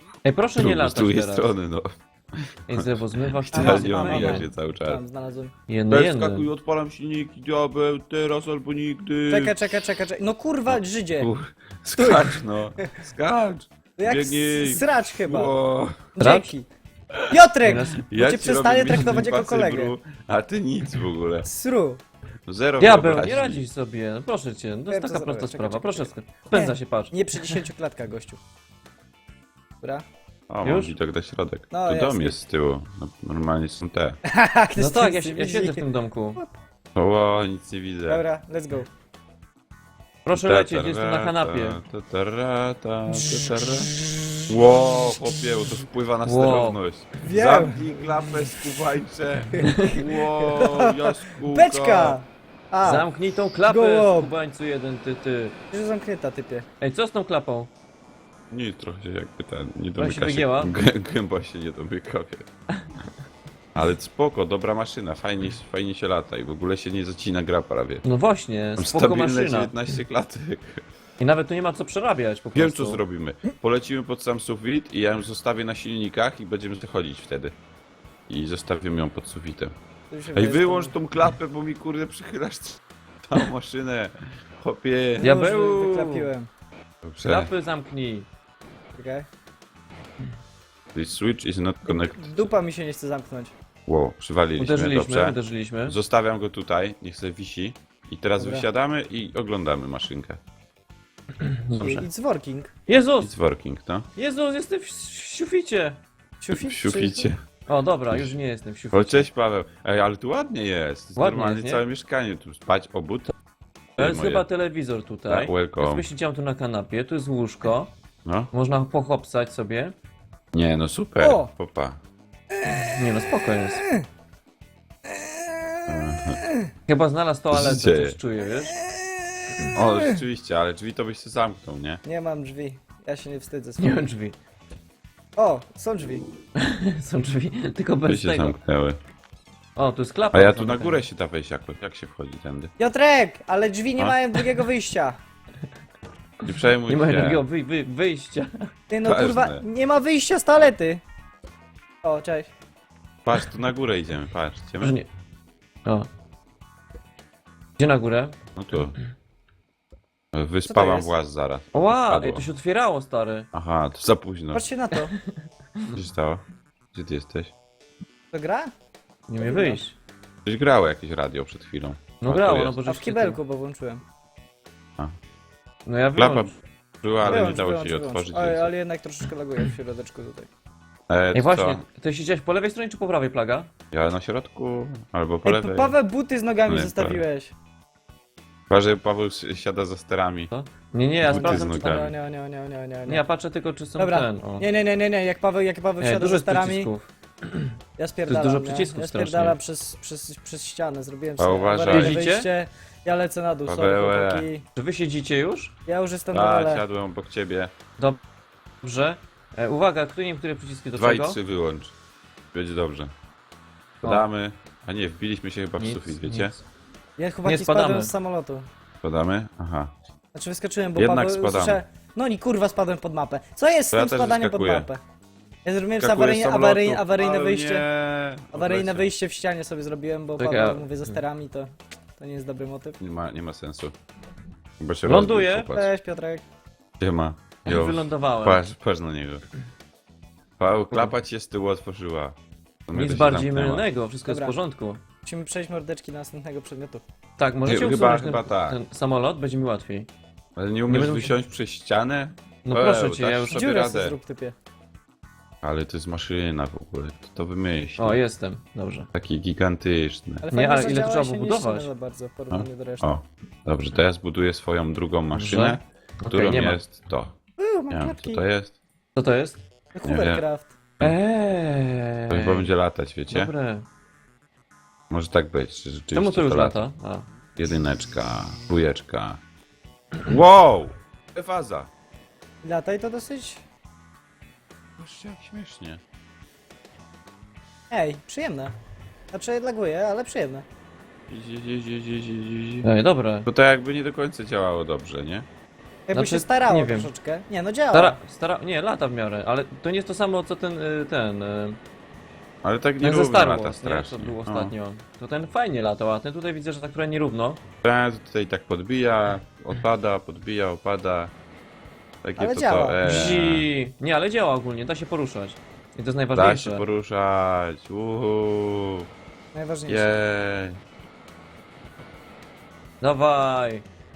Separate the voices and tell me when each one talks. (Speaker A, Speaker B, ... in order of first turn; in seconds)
Speaker A: 0.2-1.5, 2.7-4.5, 5.7-6.5, 16.2-16.5, 17.6-18.0, 22.8-27.6, 30.6-30.9, 34.8-36.4, 40.2-41.8, 46.2-46.8, 52.8-55.5, 56.8-57.7, 60.0-60.7, 68.0-69.7, 71.2-73.0, 85.2-86.3, 87.2-88.3, 94.6-96.0, 101.4-102.1, 102.9-103.3, 104.2-106.0, 107.7-109.3, 111.2-111.8, 114.0-117.9, 118.5-119.9, 122.8-123.8, 126.9-128.8, 133.8-134.3, 136.6-138.6, 139.8-141.0, 146.5-148.7, 154.8-155.1, 157.8-158.3, 161.7-163.5, 169.3-169.9, 172.2-173.4, 175.8-176.5, 181.3-183.7, 190.5-192.1, 193.1-194.7, 196.0-197.7, 198.3-199.6, 201.9-202.5, 204.7-205.7, 208.8-211.4, 215.8-216.6, 217.4-218.1, 230.4-231.2, 235.1-235.7, 237.7-238.6, 242.9-245.0, 247.4-250.1, 250.9-251.3, 252.7-253.6, 258.0-259.1, 260.5-261.9, 265.3-266.8, 269.1-269.6, 271.0-272.7, 273.3-273.9, 276.1-277.2, 292.8-293.5, 296.1-297.1, 297.9-301.8, 303.0-307.6, 313.0-316.8, 323.0-323.8
Speaker B: 0.6-5.0, 5.9-9.9, 10.7-16.0, 17.1-21.4, 22.5-23.6, 30.5-34.2, 36.9-38.2, 40.3-43.9, 44.5-52.2, 58.5-62.5, 63.7-68.0, 68.8-70.8, 72.5-77.5, 78.3-79.7, 80.3-85.3, 87.0-87.5, 90.9-92.5, 93.9-100.4, 103.2-104.1, 106.5-107.4, 108.1-108.4, 108.9-113.3, 114.0-114.5, 115.3-116.0, 118.2-118.5, 120.5-122.0, 125.9-126.4, 127.5-128.2, 129.7-132.0, 138.0-139.0, 140.3-142.7, 146.4-147.4, 149.0-149.6, 153.2-155.0, 158.6-158.9, 160.3-162.4, 163.5-164.6, 165.9-166.4, 166.9-167.5, 170.4-172.7, 176.2-178.7, 181.1-181.8, 183.9-185.9, 186.7-187.2, 188.7-190.5, 191.2-192.1, 201.4-202.2, 203.7-204.5, 206.3-207.7, 210.9-211.9, 212.5-213.1, 214.0-216.5, 219.0-219.9, 220.9-221.8, 223.9-224.9, 226.0-229.1, 233.0-233.9, 234.8-235.9, 237.0-239.4, 240.6-243.8, 247.6-248.8, 250.6-254.2, 255.6-258.2, 259.1-260.4, 262.5-267.4, 267.9-268.8, 270.0-270.4, 272.3-273.5, 275.1-276.8, 277.6-279.4, 280.2-281.9, 285.0-286.0, 291.3-292.9, 293.4-295.5, 302.6-304.7, 307.8-311.3, 312.2-313.7, 316.3-319.1, 319.9-320.8
Speaker C: 3.5-5.5, 9.3-11.3, 12.0-12.9, 14.0-15.5, 16.1-16.7, 17.3-19.9, 21.4-22.0, 24.9-28.4, 31.7-32.4, 34.2-36.5, 38.1-38.9, 43.3-44.5, 47.2-47.9, 49.5-53.1, 53.6-54.3, 55.7-56.7, 80.1-80.9, 85.2-86.5, 88.9-89.3, 91.9-93.5, 98.4-98.7, 101.8-102.7, 106.4-107.3, 121.2-121.5, 122.5-124.1, 125.0-126.7, 128.7-130.2, 132.0-134.1, 135.4-136.2, 142.8-145.2, 148.9-151.0, 152.0-152.5, 160.7-161.1, 164.5-165.2, 168.3-168.7, 169.4-169.8, 172.8-174.0, 177.2-180.5, 185.4-187.5, 191.3-193.2, 194.0-196.9, 198.0-204.6, 205.8-206.8, 217.2-218.7, 220.3-225.0, 225.6-227.9, 228.5-233.0, 235.7-236.4, 244.2-244.6, 245.2-247.0, 253.5-254.6, 260.4-263.1, 267.6-268.4, 269.9-270.7, 282.6-283.6, 287.9-288.7, 289.3-290.6, 296.1-298.2, 312.4-313.2, 319.5-320.1